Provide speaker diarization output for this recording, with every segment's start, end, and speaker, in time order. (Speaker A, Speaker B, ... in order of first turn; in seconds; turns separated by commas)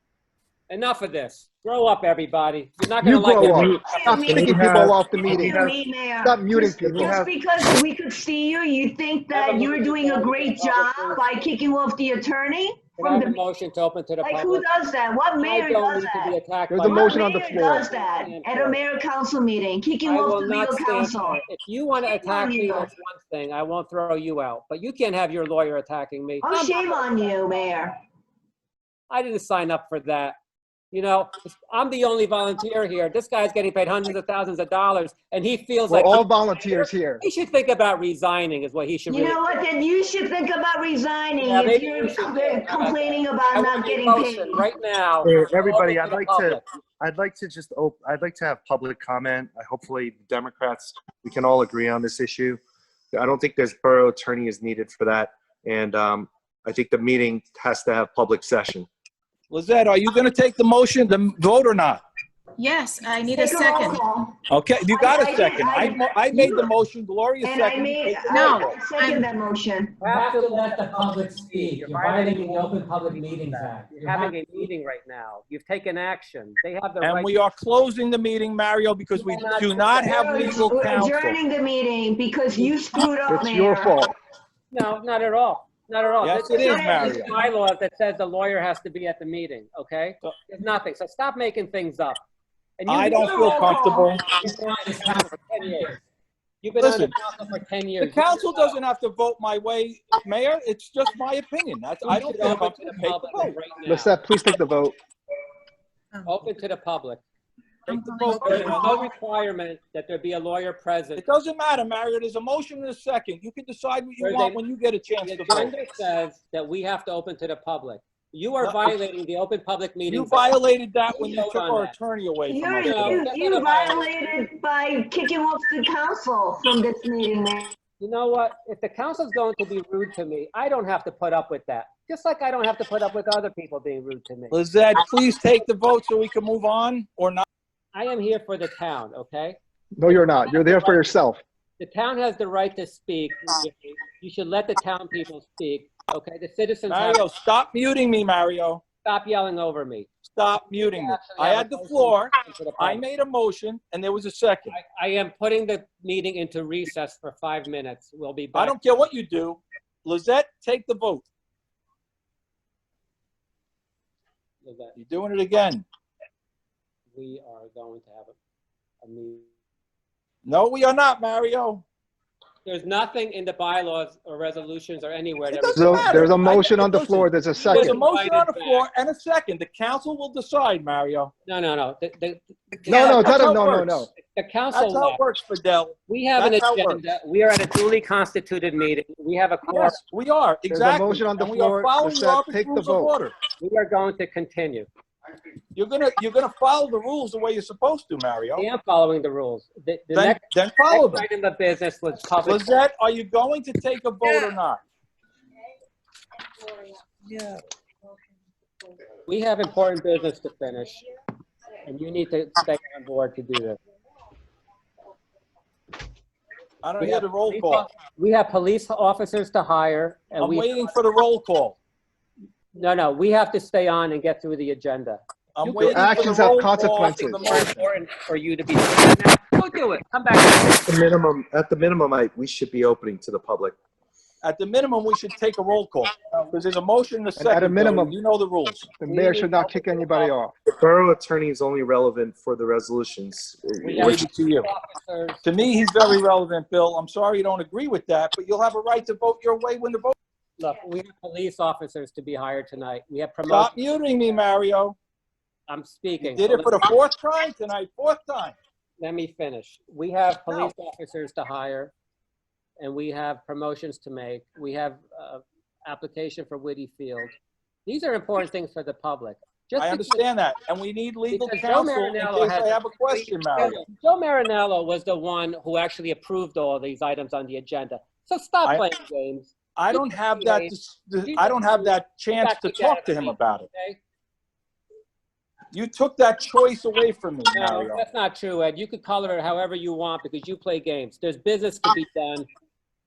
Speaker A: 0.7-3.8, Speaker B: 3.0-5.6, Speaker C: 3.5-5.7, Speaker D: 3.8-4.6, Speaker D: 5.2-13.4, Speaker B: 6.2-7.2, Speaker C: 6.9-7.3, Speaker A: 9.3-11.3, Speaker A: 13.0-14.7, Speaker D: 14.2-21.4, Speaker A: 15.4-18.8, Speaker B: 16.7-17.9, Speaker A: 20.1-27.8, Speaker D: 22.0-22.9, Speaker D: 26.4-28.0, Speaker A: 29.1-30.4, Speaker A: 30.9-39.5, Speaker B: 35.9-37.2, Speaker D: 39.1-44.6, Speaker A: 41.4-46.6, Speaker C: 45.2-52.6, Speaker C: 53.1-58.9, Speaker E: 59.5-62.0, Speaker F: 62.6-64.0, Speaker D: 63.3-64.4, Speaker E: 64.5-68.7, Speaker D: 64.9-66.7, Speaker D: 67.4-70.0, Speaker F: 68.3-69.3, Speaker A: 70.0-77.3, Speaker E: 77.0-81.4, Speaker A: 79.2-80.2, Speaker D: 80.0-84.0, Speaker B: 83.3-84.1, Speaker A: 84.7-92.2, Speaker E: 86.2-87.3, Speaker D: 86.5-87.3, Speaker A: 92.8-96.0, Speaker E: 92.9-94.2, Speaker D: 93.0-94.1, Speaker A: 96.6-98.8, Speaker E: 96.8-97.1, Speaker E: 98.0-103.6, Speaker A: 102.0-104.2, Speaker B: 103.9-105.0, Speaker A: 106.2-107.2, Speaker E: 107.9-109.0, Speaker F: 107.9-108.8, Speaker A: 108.3-111.2, Speaker E: 111.2-115.7, Speaker A: 114.2-114.6, Speaker A: 115.2-120.6, Speaker E: 118.6-119.0, Speaker E: 120.1-123.3, Speaker A: 121.1-121.9, Speaker D: 122.5-127.7, Speaker A: 122.9-124.5, Speaker A: 128.0-134.6, Speaker E: 134.5-137.5, Speaker A: 137.9-141.1, Speaker B: 140.0-141.4, Speaker A: 141.8-147.2, Speaker E: 146.9-148.8, Speaker A: 149.0-150.1, Speaker E: 150.3-154.8, Speaker A: 150.8-153.0, Speaker A: 154.7-158.7, Speaker E: 158.5-161.3, Speaker A: 164.6-165.0, Speaker E: 165.0-165.8, Speaker A: 167.1-168.4, Speaker A: 169.0-169.5, Speaker E: 170.4-171.8, Speaker A: 172.7-176.5, Speaker E: 175.5-181.3, Speaker B: 175.8-178.0, Speaker A: 177.6-178.8, Speaker A: 181.5-183.4, Speaker E: 182.9-184.1, Speaker B: 182.9-184.1, Speaker A: 184.1-185.2, Speaker E: 184.7-187.0, Speaker A: 186.1-190.0, Speaker E: 189.7-193.3, Speaker B: 190.7-193.1, Speaker A: 193.6-194.9, Speaker E: 195.8-198.7, Speaker A: 198.6-202.7, Speaker E: 200.1-201.3, Speaker E: 202.4-204.8, Speaker A: 209.3-211.0, Speaker A: 211.8-213.8, Speaker E: 216.8-217.9, Speaker A: 217.0-220.8, Speaker E: 220.4-221.8, Speaker A: 222.7-230.8, Speaker E: 225.6-227.9, Speaker B: 225.9-227.5, Speaker C: 230.9-233.8, Speaker E: 234.4-238.9, Speaker B: 237.4-238.2, Speaker B: 239.0-240.6, Speaker A: 239.1-240.3, Speaker C: 240.8-244.2, Speaker A: 243.8-245.4, Speaker E: 243.9-244.7, Speaker E: 245.4-250.2, Speaker A: 250.6-253.7, Speaker E: 253.5-255.0, Speaker A: 255.7-256.8, Speaker E: 256.2-258.6, Speaker A: 259.0-261.9, Speaker A: 262.8-267.3, Speaker A: 267.9-270.2, Speaker E: 269.8-273.8, Speaker A: 271.3-280.7, Speaker E: 279.8-283.7, Speaker A: 281.2-284.0, Speaker E: 285.7-288.0, Speaker A: 287.6-292.5